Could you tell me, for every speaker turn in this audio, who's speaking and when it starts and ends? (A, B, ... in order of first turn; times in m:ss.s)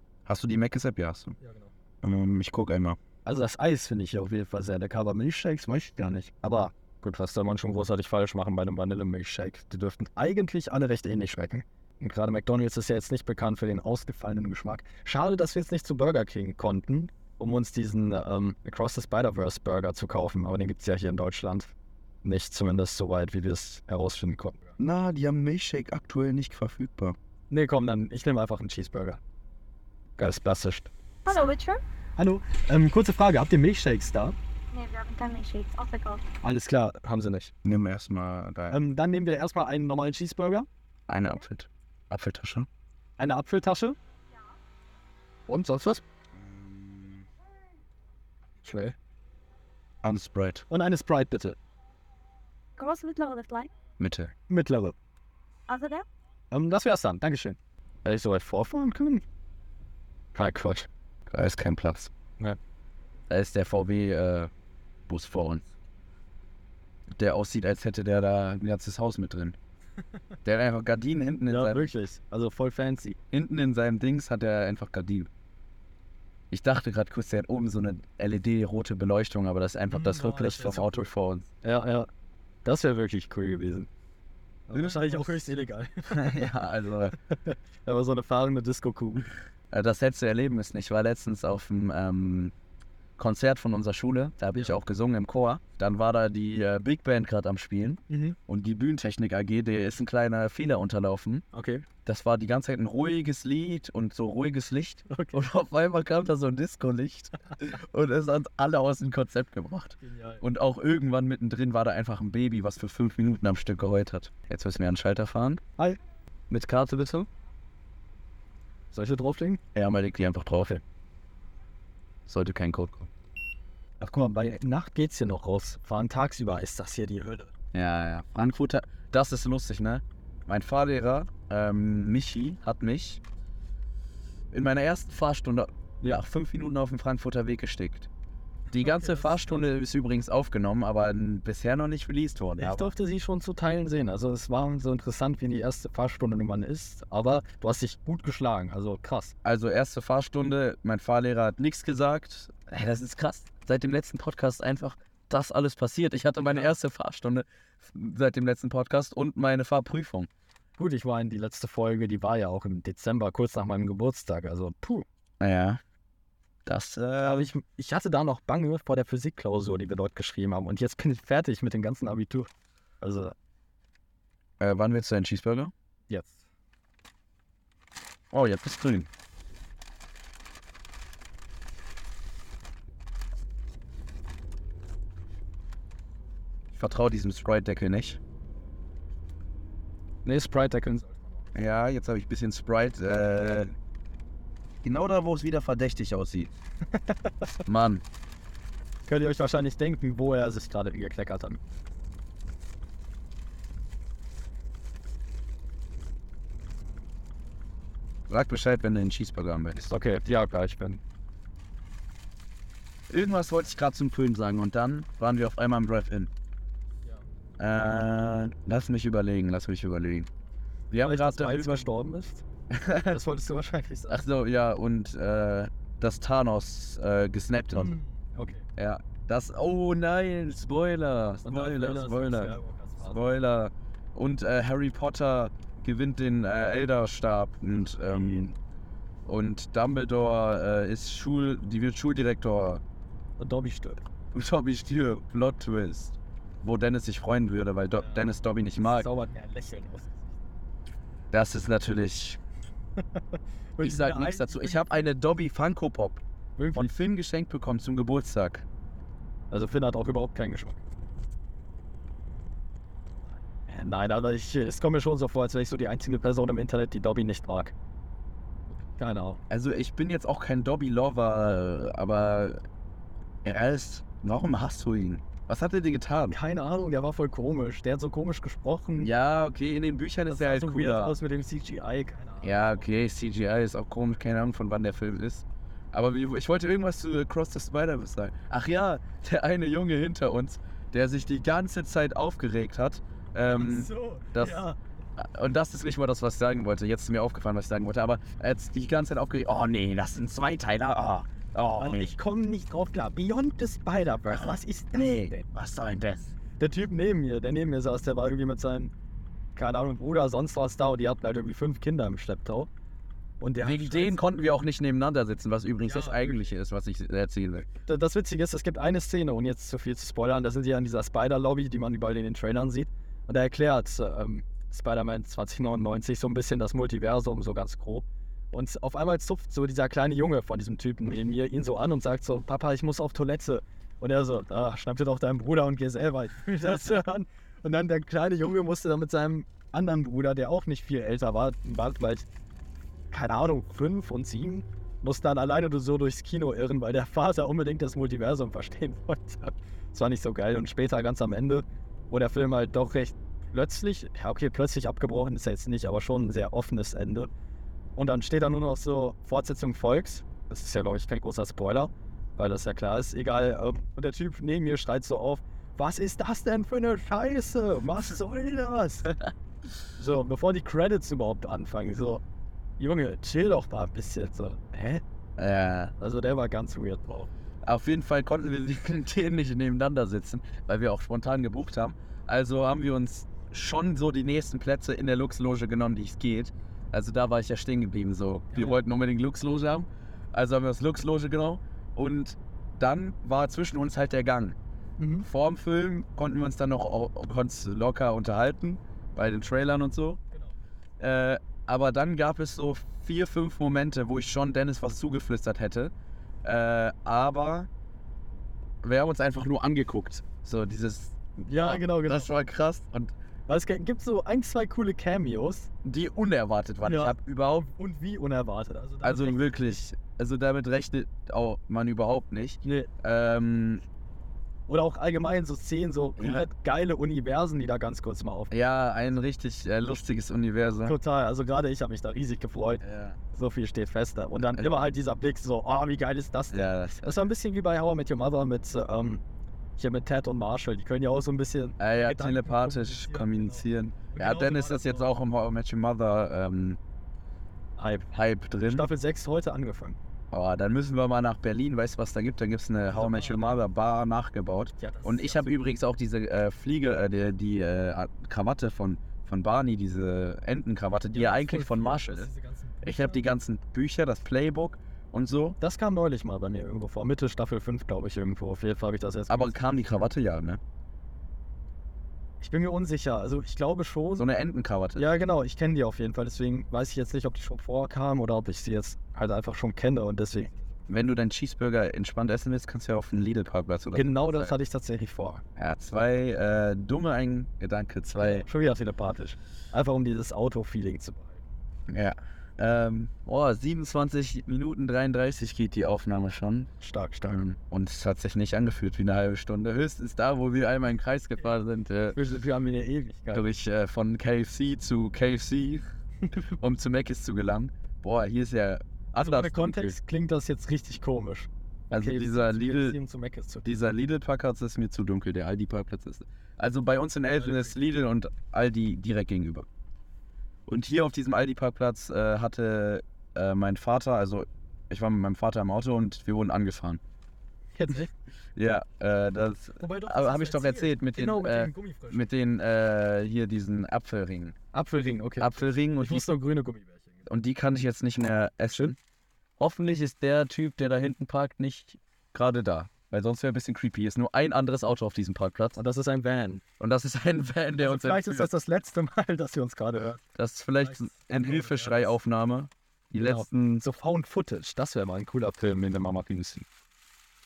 0:00.2-0:01.4 A
0:01.4-0:01.7 B
0:02.0-0:03.0 A
0:03.2-0:21.7 B
0:22.2-0:24.7 B
0:24.8-0:27.2 A
0:27.5-0:29.2 B
0:30.2-0:30.9 B
0:31.2-0:31.8 C
0:32.2-0:34.4 B
0:34.7-0:36.2 C
0:36.4-0:37.5 B
0:37.6-0:38.8 A
0:38.7-0:40.7 B
0:41.1-0:42.7 A
0:43.2-0:44.0 B
0:45.5-0:46.0 B
0:46.3-0:47.3 A
0:48.6-0:49.0 B
0:50.0-0:50.6 A
0:50.7-0:51.6 B
0:52.8-0:53.7 C
0:54.0-0:54.3 A
0:54.5-0:54.9 B
0:55.7-0:56.0 C
0:56.5-0:59.2 B
1:00.3-1:00.9 B
1:01.3-1:02.1 A
1:03.3-1:04.5 A
1:05.1-1:05.7 A
1:07.2-1:09.6 A
1:10.4-1:11.9 A
1:11.5-1:13.2 B
1:13.3-1:15.3 A
1:16.5-1:21.5 A
1:19.9-1:21.0 B
1:21.6-1:22.1 B
1:22.6-1:23.9 B
1:24.7-1:26.5 B
1:24.7-1:25.4 A
1:26.0-1:27.2 A
1:27.3-1:29.3 B
1:29.7-1:32.5 A
1:33.2-1:41.4 A
1:38.1-1:38.4 B
1:41.5-1:41.8 B
1:42.0-1:55.6 A
1:45.1-1:45.4 B
1:50.0-1:50.4 B
1:56.5-1:57.3 A
1:58.9-1:59.6 B
1:59.7-2:00.8 A
2:02.2-2:03.1 A
2:04.0-2:07.5 B
2:07.7-2:13.2 A
2:14.5-2:18.1 A
2:18.7-2:22.9 A
2:18.7-2:19.6 B
2:22.6-2:29.3 B
2:29.4-2:40.3 A
2:36.5-2:36.7 B
2:40.8-2:45.0 B
2:45.4-2:45.8 A
2:46.6-2:47.5 A
2:47.2-2:52.5 B
2:53.0-2:53.3 B
2:54.6-2:55.7 A
2:56.1-2:56.4 B
2:58.3-2:59.1 A
3:06.7-3:08.2 A
3:10.2-3:11.5 B
3:11.5-3:13.7 A
3:14.8-3:16.5 A
3:17.6-3:18.0 A
3:19.1-3:21.6 B
3:28.3-3:29.9 A
3:29.8-3:31.0 B
3:33.1-3:36.3 A
3:37.6-3:40.3 A
3:40.9-3:41.9 A
3:41.0-3:42.4 B
3:42.7-3:43.2 A
3:43.0-3:44.2 B
3:44.1-3:48.0 A
3:47.8-3:48.6 B
3:48.8-3:58.6 A
3:51.4-3:53.2 B
3:59.2-4:02.8 A
4:03.4-4:04.0 B
4:04.3-4:09.1 A
4:08.0-4:08.3 B
4:08.8-4:10.3 B
4:11.3-4:12.4 A
4:13.8-4:15.0 B
4:13.8-4:16.2 A
4:16.6-4:16.9 B
4:16.7-4:18.6 A
4:19.5-4:20.8 B
4:23.7-4:27.7 B
4:29.0-4:29.4 B
4:29.5-4:32.6 A
4:33.4-4:36.4 A
4:36.3-4:39.1 B
4:39.0-4:41.2 A
4:40.3-4:42.9 B
4:42.4-4:54.6 A
4:53.4-4:54.8 B
4:55.2-5:02.1 A
5:01.8-5:05.4 B
5:04.9-5:06.3 A
5:06.6-5:08.9 B
5:09.5-5:12.7 B
5:13.4-5:14.3 B
5:13.6-5:17.7 A
5:15.8-5:16.5 B
5:17.8-5:42.2 B
5:43.1-5:57.3 B
5:58.0-6:09.2 B
6:10.0-6:12.2 B
6:12.8-6:15.0 B
6:15.4-6:15.9 A
6:16.0-6:17.3 B
6:17.6-6:34.6 A
6:28.5-6:28.8 B
6:35.0-6:35.3 B
6:35.2-6:40.2 A
6:41.0-6:45.9 A
6:46.4-6:47.7 A
6:48.8-6:53.1 A
6:51.4-6:52.3 B
6:53.5-6:55.7 B
6:55.8-6:57.7 A
6:56.8-6:59.6 B
6:59.0-7:03.8 A
7:02.6-7:02.9 B
7:04.7-7:08.5 B
7:06.2-7:06.4 A
7:08.5-7:10.9 A
7:10.8-7:19.2 B
7:12.8-7:13.2 A
7:16.5-7:17.2 A
7:19.8-7:25.1 B
7:21.8-7:26.8 A
7:27.8-7:28.1 B
7:28.1-7:28.9 A
7:28.6-7:30.0 B
7:30.3-7:42.3 A
7:32.9-7:33.6 B
7:34.8-7:35.6 B
7:41.1-7:43.2 B
7:42.8-7:45.6 A
7:45.6-7:49.6 B
7:49.3-7:50.6 A
7:52.4-7:54.3 B
7:54.2-7:55.2 A
7:55.0-8:00.6 B
8:00.9-8:04.5 A
8:03.9-8:05.4 B
8:05.6-8:08.5 A
8:08.2-8:11.4 B
8:11.9-8:16.7 A
8:16.8-8:17.4 B
8:17.3-8:22.2 A
8:22.1-8:23.4 B
8:23.3-8:30.0 A
8:29.1-8:33.7 B
8:31.9-8:33.0 A
8:33.6-8:39.7 A
8:37.3-8:37.8 B
8:40.7-8:47.0 A
8:47.7-8:48.1 B
8:48.6-8:54.6 A
8:49.8-8:52.3 B
8:54.7-8:57.3 B
8:55.4-8:56.3 A
8:57.2-8:59.0 A
8:59.6-9:05.8 A
9:05.8-9:06.6 B
9:06.8-9:08.5 A
9:07.8-9:10.2 B
9:10.4-9:13.8 A
9:10.8-9:12.2 B
9:13.2-9:16.6 B